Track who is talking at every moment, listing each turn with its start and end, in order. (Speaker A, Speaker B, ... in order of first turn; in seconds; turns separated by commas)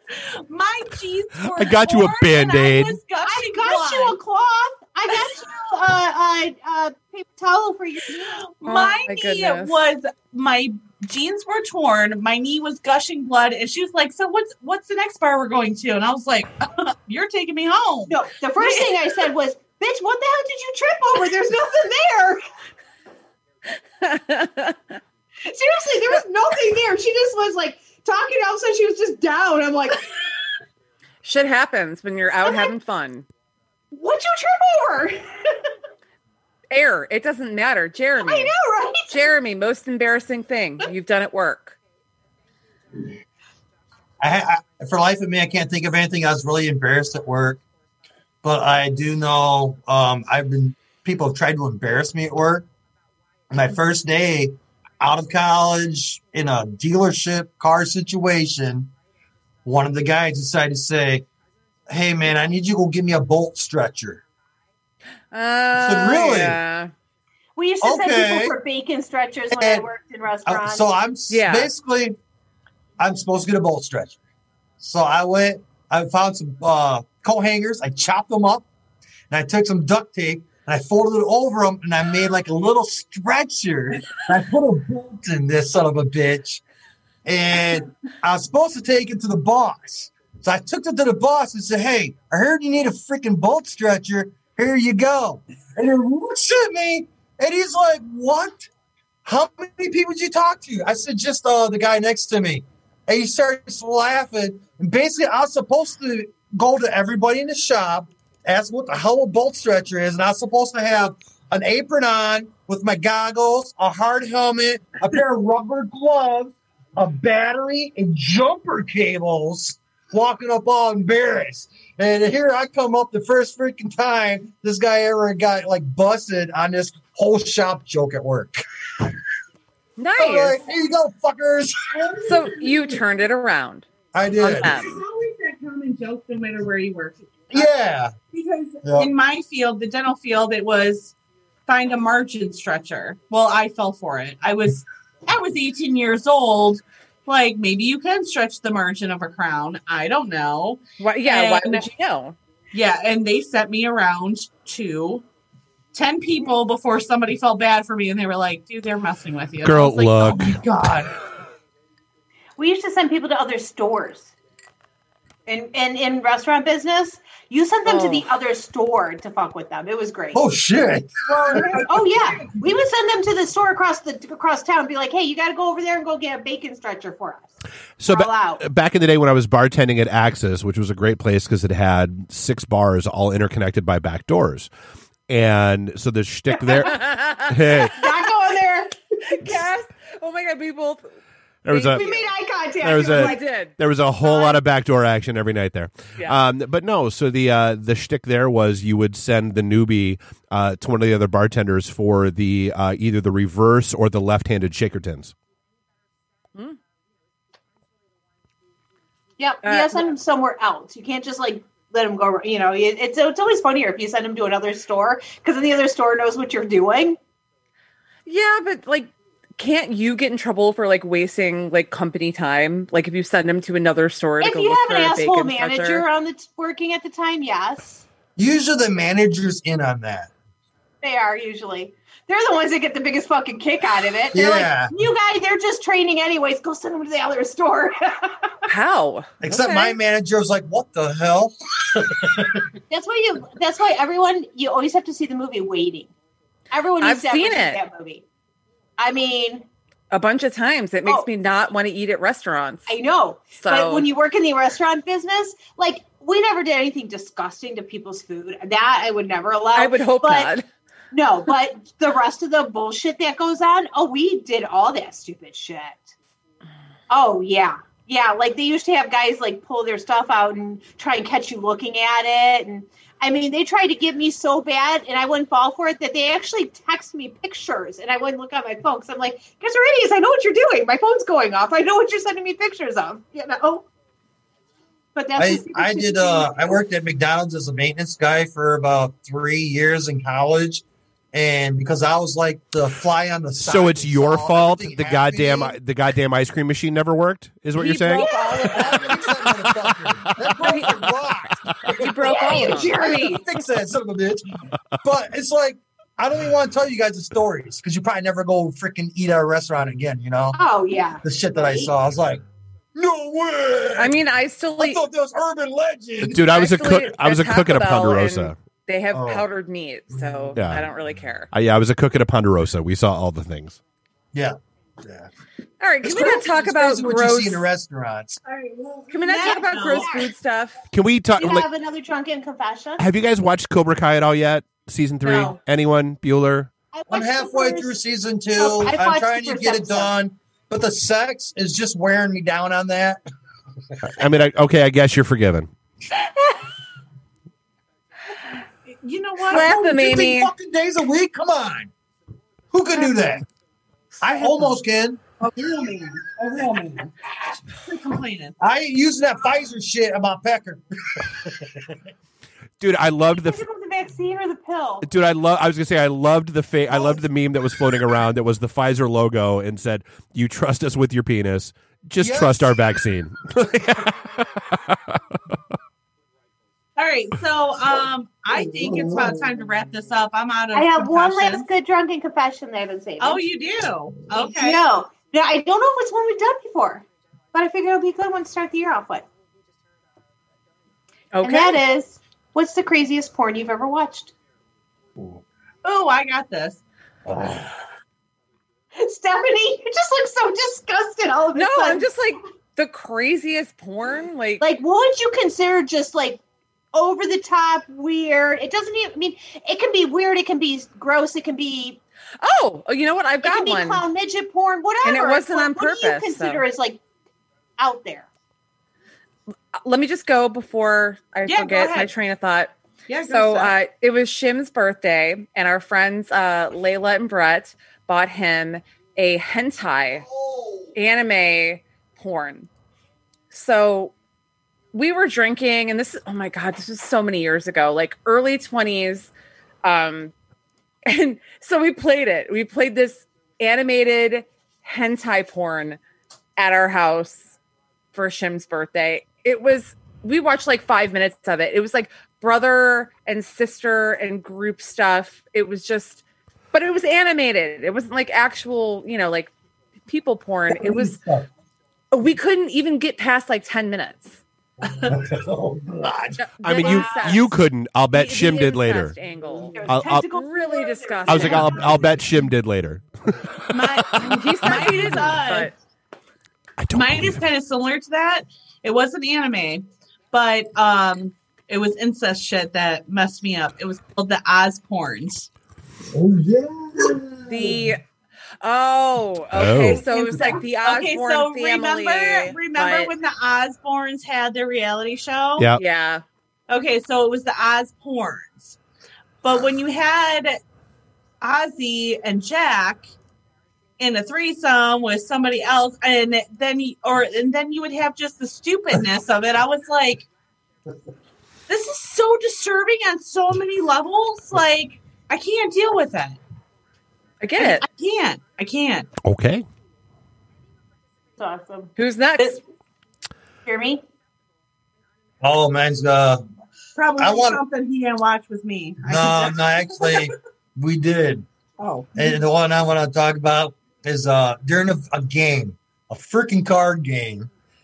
Speaker A: 0.1-4.2, Speaker B: 1.4-3.0, Speaker C: 3.2-8.4, Speaker A: 8.4-19.3, Speaker D: 8.6-9.8, Speaker C: 18.1-22.4, Speaker D: 24.0-25.0, Speaker C: 25.4-30.5, Speaker D: 31.2-33.2, Speaker C: 32.5-32.7, Speaker C: 33.9-35.5, Speaker D: 36.7-38.5, Speaker C: 38.2-39.3, Speaker D: 39.1-41.8, Speaker E: 44.2-47.6, Speaker E: 48.4-52.7, Speaker E: 53.5-58.9, Speaker E: 59.6-61.2, Speaker E: 61.9-64.2, Speaker D: 65.3-66.9, Speaker E: 65.7-66.6, Speaker C: 67.5-70.8, Speaker E: 67.8-68.5, Speaker E: 69.5-69.8, Speaker E: 70.5-72.2, Speaker D: 71.3-71.7, Speaker E: 73.0-74.2, Speaker E: 74.8-78.7, Speaker E: 79.3-86.6, Speaker E: 87.2-98.7, Speaker E: 99.2-128.6, Speaker D: 130.0-130.6, Speaker E: 130.2-132.3, Speaker D: 132.2-133.9, Speaker E: 134.1-134.7, Speaker D: 134.4-135.0, Speaker A: 134.4-137.7, Speaker E: 137.5-138.1, Speaker A: 138.3-141.1, Speaker E: 138.8-139.1, Speaker A: 141.7-151.9, Speaker D: 151.0-152.4, Speaker A: 152.7-155.2, Speaker A: 155.9-161.1, Speaker B: 159.6-160.9, Speaker C: 162.6-164.3, Speaker C: 165.5-170.4, Speaker D: 167.8-168.2, Speaker E: 170.3-172.1, Speaker A: 171.5-171.8, Speaker C: 171.7-177.5, Speaker B: 178.0-184.7, Speaker C: 178.1-178.6, Speaker B: 185.3-188.0, Speaker D: 186.8-188.0, Speaker C: 187.9-189.0, Speaker D: 189.2-191.1, Speaker B: 191.6-192.0, Speaker D: 191.7-192.3, Speaker C: 191.9-193.4, Speaker B: 192.8-205.3, Speaker D: 192.9-193.7, Speaker C: 194.2-194.6, Speaker C: 209.4-217.2, Speaker D: 209.6-210.0, Speaker D: 218.2-226.0, Speaker C: 224.4-228.0, Speaker E: 228.3-230.3, Speaker C: 231.0-238.5, Speaker E: 234.3-234.9, Speaker D: 238.7-240.0, Speaker E: 239.4-242.7, Speaker C: 242.9-246.1, Speaker C: 246.7-248.2, Speaker D: 247.0-247.8, Speaker C: 249.0-249.7, Speaker D: 250.1-252.9, Speaker C: 252.9-260.5, Speaker D: 253.5-254.1, Speaker D: 259.7-260.7, Speaker C: 261.1-266.1, Speaker C: 267.1-283.8, Speaker C: 285.1-286.8, Speaker E: 285.4-295.7, Speaker B: 293.6-298.3, Speaker D: 297.8-298.9, Speaker C: 298.0-299.1, Speaker E: 298.2-302.2, Speaker B: 299.4-300.5, Speaker D: 300.6-300.9, Speaker D: 301.9-303.4, Speaker C: 302.2-303.4, Speaker E: 303.0-310.6, Speaker C: 310.5-311.9, Speaker E: 311.2-312.4, Speaker E: 312.9-314.2, Speaker D: 314.0-315.0, Speaker E: 314.8-316.5, Speaker B: 316.2-318.5, Speaker D: 316.5-321.5, Speaker E: 319.1-319.4, Speaker B: 320.5-320.9, Speaker B: 321.5-323.8, Speaker E: 324.3-325.3, Speaker D: 325.8-327.6, Speaker E: 326.0-328.4, Speaker A: 328.4-330.1, Speaker D: 329.1-330.8, Speaker C: 329.2-330.3, Speaker B: 330.9-331.6, Speaker C: 331.4-333.0, Speaker B: 333.0-336.7, Speaker C: 335.2-335.5, Speaker C: 336.9-338.0, Speaker E: 337.1-343.2, Speaker C: 338.6-340.1, Speaker B: 344.2-345.7, Speaker A: 348.9-349.8, Speaker D: 349.5-350.5, Speaker E: 349.5-351.9, Speaker E: 352.7-353.4, Speaker D: 354.2-354.6, Speaker E: 354.2-355.2, Speaker A: 355.4-357.1, Speaker A: 357.7-358.5, Speaker E: 358.6-361.9, Speaker B: 362.8-363.6, Speaker C: 363.3-365.1, Speaker B: 365.0-375.2, Speaker E: 372.2-372.9, Speaker A: 377.0-381.6, Speaker E: 378.8-379.3, Speaker C: 380.7-383.4, Speaker A: 383.2-384.8, Speaker C: 384.3-389.2, Speaker D: 391.3-391.8, Speaker C: 391.4-394.3, Speaker A: 395.8-396.8, Speaker E: 397.2-397.7, Speaker C: 398.9-402.1, Speaker D: 401.5-404.6, Speaker C: 404.6-406.4, Speaker C: 406.9-412.0, Speaker D: 412.4-414.0, Speaker C: 413.4-417.0, Speaker D: 415.0-416.6, Speaker C: 417.8-418.3, Speaker D: 419.8-422.7, Speaker A: 421.5-422.1, Speaker A: 423.1-423.7, Speaker D: 423.3-430.3, Speaker E: 430.3-430.9, Speaker D: 430.9-432.7, Speaker D: 433.5-434.1, Speaker D: 434.9-439.3, Speaker D: 439.8-440.3, Speaker D: 441.1-446.0, Speaker D: 446.6-447.6, Speaker D: 448.1-459.5, Speaker D: 460.1-461.2, Speaker E: 460.7-461.5, Speaker D: 462.1-464.4, Speaker E: 464.9-466.5, Speaker D: 466.4-467.5, Speaker B: 466.6-469.1, Speaker C: 466.8-467.4, Speaker D: 468.1-471.9, Speaker C: 469.5-472.0, Speaker B: 469.9-470.3, Speaker B: 471.3-474.2, Speaker A: 473.7-475.7, Speaker D: 474.2-475.7, Speaker B: 476.8-477.4, Speaker A: 476.9-485.5, Speaker E: 486.1-487.9, Speaker D: 487.5-488.0, Speaker D: 488.6-493.1, Speaker B: 489.5-490.0, Speaker A: 490.0-495.7, Speaker D: 495.7-496.2, Speaker A: 496.7-498.8, Speaker A: 499.4-500.6, Speaker A: 501.4-503.1, Speaker A: 504.0-510.3, Speaker A: 511.7-516.4, Speaker D: 517.4-517.8, Speaker A: 517.6-519.1, Speaker B: 519.2-519.6, Speaker C: 521.4-521.9, Speaker D: 522.0-522.6, Speaker C: 523.6-524.0, Speaker E: 525.4-526.4, Speaker A: 526.9-530.3, Speaker E: 527.2-527.6, Speaker E: 529.0-531.5, Speaker A: 531.8-532.4, Speaker E: 532.1-537.5